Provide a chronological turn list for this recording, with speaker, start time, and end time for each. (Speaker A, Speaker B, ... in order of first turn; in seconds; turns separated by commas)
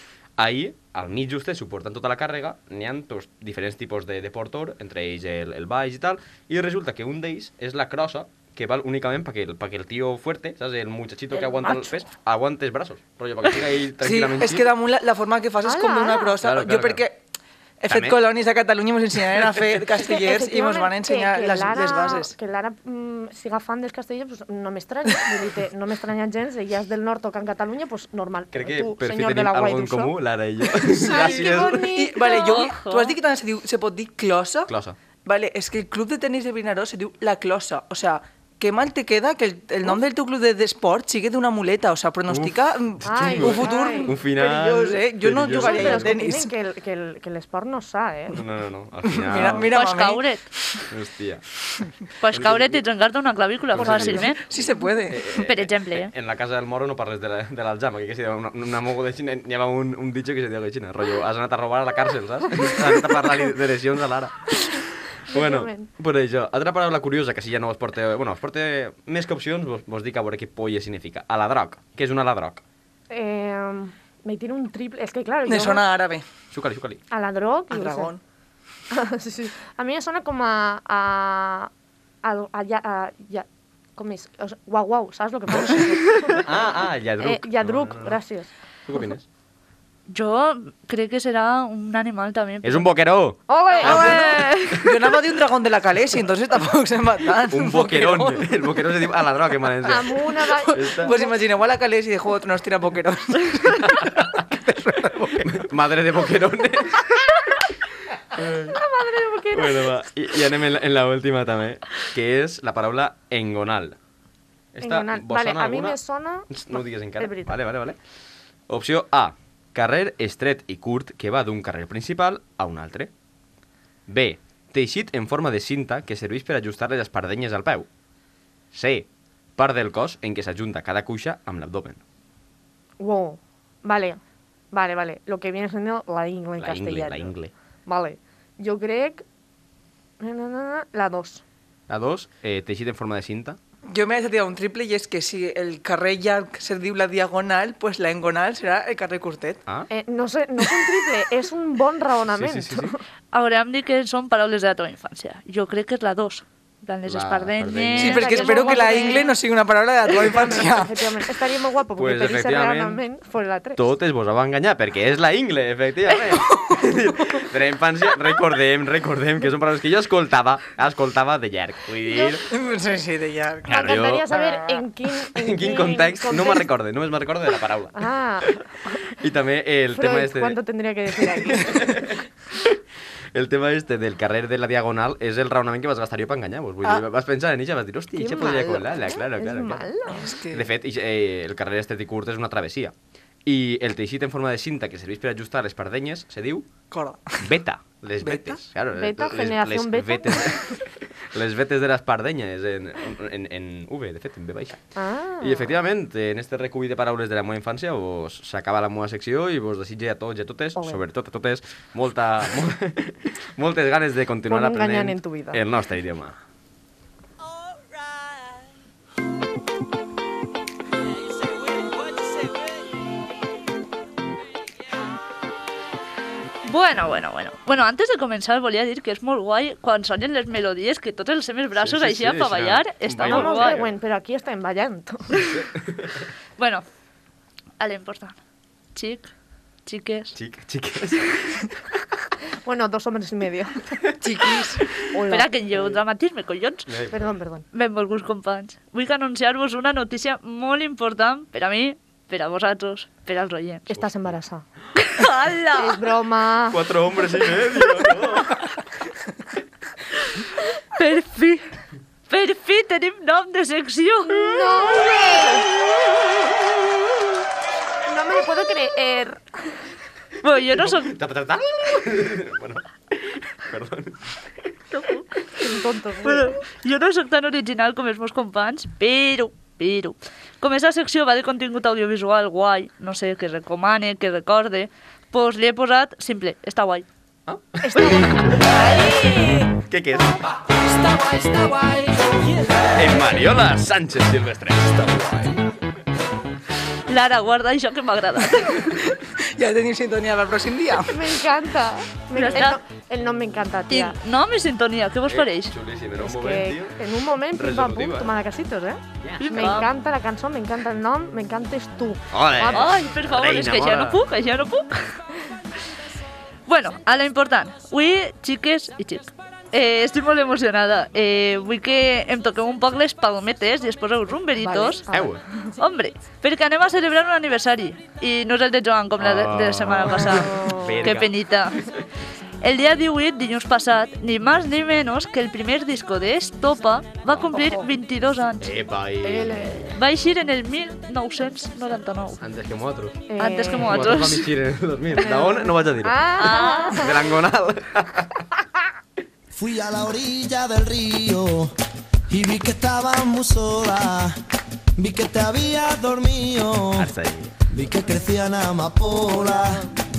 Speaker A: 0.4-14.7, Speaker B: 11.3-11.9, Speaker C: 14.0-17.2, Speaker B: 15.6-16.4, Speaker A: 16.4-17.0, Speaker C: 17.8-22.3, Speaker A: 17.9-18.2, Speaker B: 20.0-30.1, Speaker A: 28.5-31.9, Speaker B: 30.8-32.7, Speaker C: 31.0-34.7, Speaker D: 32.2-33.1, Speaker A: 34.7-35.0, Speaker C: 35.2-46.5, Speaker A: 42.3-46.2, Speaker B: 43.0-44.1, Speaker B: 45.5-48.4, Speaker A: 48.3-49.7, Speaker C: 49.1-50.3, Speaker D: 49.3-50.5, Speaker A: 50.9-51.4, Speaker D: 52.2-54.4, Speaker A: 52.3-52.8, Speaker A: 53.7-64.6, Speaker C: 53.8-55.3, Speaker D: 55.3-56.1, Speaker A: 65.3-72.6, Speaker B: 65.3-65.9, Speaker B: 73.1-75.8, Speaker C: 75.5-76.2, Speaker A: 76.5-77.0, Speaker B: 77.1-78.1, Speaker C: 77.7-78.2, Speaker B: 78.9-81.7, Speaker B: 82.2-86.5, Speaker A: 86.3-88.2, Speaker B: 87.2-88.5, Speaker A: 88.9-89.2, Speaker D: 90.1-92.9, Speaker A: 92.6-95.0, Speaker B: 93.5-94.4, Speaker D: 93.8-94.9, Speaker C: 93.8-98.5, Speaker A: 97.5-100.1, Speaker B: 99.8-101.3, Speaker A: 100.7-101.1, Speaker C: 100.7-105.6, Speaker A: 103.8-104.4, Speaker A: 105.4-107.2, Speaker A: 108.3-108.8, Speaker B: 108.7-109.9, Speaker A: 109.5-114.0, Speaker A: 114.7-116.0, Speaker B: 114.8-117.5, Speaker A: 116.5-118.0, Speaker A: 118.7-123.1, Speaker A: 124.1-127.9, Speaker A: 128.7-132.0, Speaker B: 133.0-134.2, Speaker B: 134.7-137.3, Speaker A: 136.6-137.5, Speaker B: 137.8-139.2, Speaker B: 140.2-141.4, Speaker A: 141.9-143.6, Speaker C: 143.9-149.6, Speaker B: 149.9-153.0, Speaker A: 152.3-152.9, Speaker D: 153.3-159.3, Speaker A: 157.1-158.3, Speaker C: 158.0-161.1, Speaker B: 158.0-159.3, Speaker B: 160.1-163.8, Speaker A: 162.0-163.0, Speaker A: 163.8-172.4, Speaker C: 166.4-167.4, Speaker B: 172.1-172.4, Speaker C: 172.5-174.8, Speaker A: 173.7-174.3, Speaker B: 173.7-176.7, Speaker A: 175.2-180.6, Speaker B: 177.9-179.0, Speaker B: 179.9-182.1, Speaker A: 181.2-182.8, Speaker A: 183.3-189.9, Speaker B: 188.2-190.3, Speaker C: 190.1-190.7, Speaker A: 190.5-192.9, Speaker A: 193.4-196.7, Speaker C: 196.9-197.5, Speaker A: 197.4-204.9, Speaker C: 198.2-198.6, Speaker B: 198.9-200.7, Speaker B: 204.9-205.7, Speaker A: 205.4-216.4, Speaker B: 210.8-211.0, Speaker B: 214.5-215.6, Speaker D: 226.7-233.8, Speaker A: 231.8-233.9, Speaker B: 233.2-235.4, Speaker D: 235.3-235.6, Speaker A: 235.4-236.2, Speaker D: 236.6-236.8, Speaker D: 237.8-238.4, Speaker D: 238.9-239.3, Speaker D: 239.8-240.3, Speaker A: 240.3-241.8, Speaker B: 242.6-244.1, Speaker C: 244.2-244.9, Speaker B: 245.1-245.5, Speaker D: 245.3-246.9, Speaker A: 246.9-247.3, Speaker B: 247.1-247.6, Speaker D: 247.7-253.9, Speaker B: 253.9-254.6, Speaker A: 253.9-254.2, Speaker D: 255.0-256.0, Speaker B: 255.7-256.8, Speaker A: 256.7-258.7, Speaker D: 260.9-261.6, Speaker D: 262.3-265.1, Speaker B: 264.3-265.7, Speaker B: 268.1-269.4, Speaker D: 270.4-271.1, Speaker A: 270.7-274.7, Speaker D: 274.9-275.3, Speaker B: 275.6-276.6, Speaker D: 276.2-287.1, Speaker A: 287.5-288.8, Speaker B: 287.8-288.8, Speaker D: 288.6-289.2, Speaker C: 288.7-289.7, Speaker A: 289.8-290.4, Speaker C: 290.7-293.3, Speaker A: 292.9-295.7, Speaker D: 297.1-298.9, Speaker C: 298.6-301.3, Speaker B: 301.1-304.2, Speaker D: 302.3-302.8, Speaker D: 303.9-305.7, Speaker A: 305.3-307.0, Speaker B: 306.2-312.9, Speaker A: 307.5-308.3, Speaker A: 309.2-309.8, Speaker D: 309.4-309.9, Speaker A: 312.3-314.2, Speaker D: 312.7-315.1, Speaker D: 316.7-325.0, Speaker B: 324.6-325.4, Speaker A: 325.1-325.4, Speaker D: 325.8-331.9, Speaker A: 329.2-331.9, Speaker B: 330.3-331.0, Speaker D: 332.6-338.7, Speaker A: 337.3-337.6, Speaker A: 338.6-339.8, Speaker B: 339.2-339.9, Speaker D: 339.9-342.4, Speaker A: 342.4-343.3, Speaker B: 343.3-344.2, Speaker D: 343.4-344.4, Speaker A: 343.8-346.3, Speaker B: 345.2-347.2, Speaker D: 346.4-347.1, Speaker A: 346.9-348.4, Speaker E: 349.5-351.7, Speaker E: 352.3-354.4, Speaker E: 355.0-357.1, Speaker A: 356.9-357.6, Speaker E: 357.7-359.9, Speaker B: 359.1-359.9